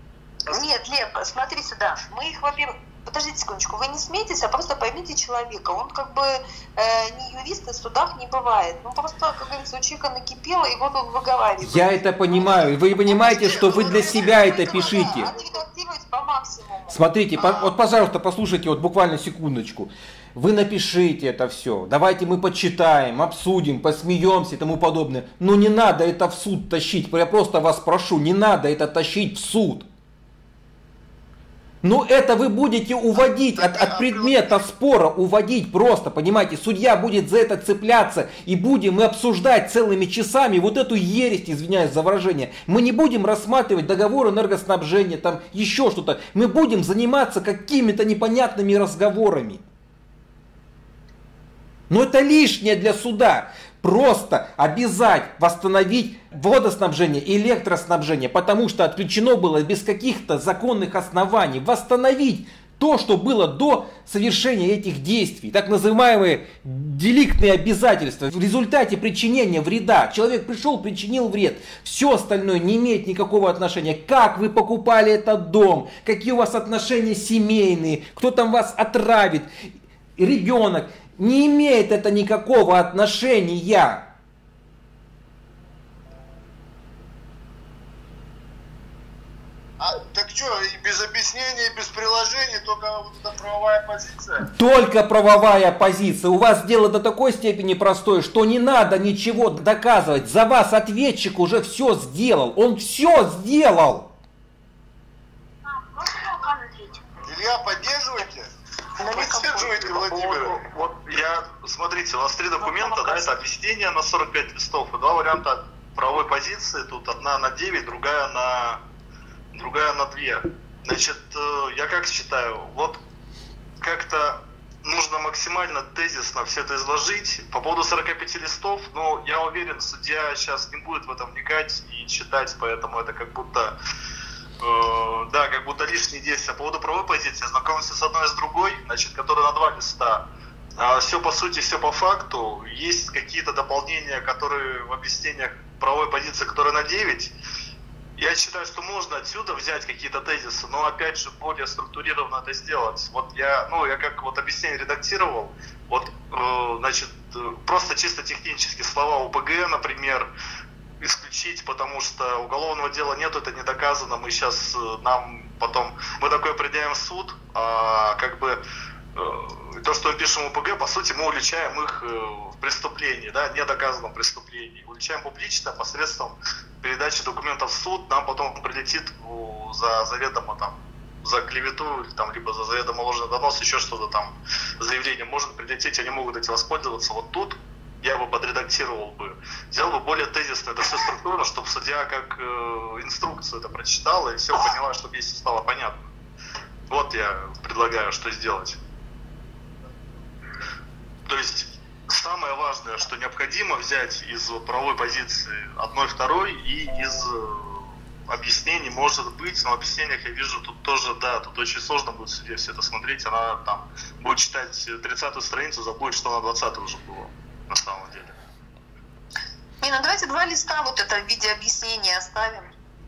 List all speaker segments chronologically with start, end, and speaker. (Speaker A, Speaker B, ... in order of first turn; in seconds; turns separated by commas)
Speaker A: 0.5-17.0, Speaker B: 11.6-15.3, Speaker C: 13.2-15.6, Speaker B: 16.9-29.9, Speaker C: 17.4-17.7, Speaker B: 31.8-49.6, Speaker C: 33.5-34.6, Speaker B: 51.9-79.5, Speaker B: 80.2-84.1, Speaker C: 89.8-94.5, Speaker B: 94.4-104.1, Speaker A: 106.1-106.9, Speaker C: 107.2-108.5, Speaker A: 109.0-109.9, Speaker C: 109.0-110.6, Speaker D: 109.8-118.8, Speaker A: 112.6-113.3, Speaker D: 119.5-123.0, Speaker D: 123.8-133.7, Speaker D: 134.6-140.2, Speaker D: 140.8-147.3, Speaker D: 148.2-160.3, Speaker D: 161.0-168.6, Speaker D: 169.1-196.1, Speaker D: 196.9-198.8, Speaker D: 201.2-218.3, Speaker A: 219.8-222.7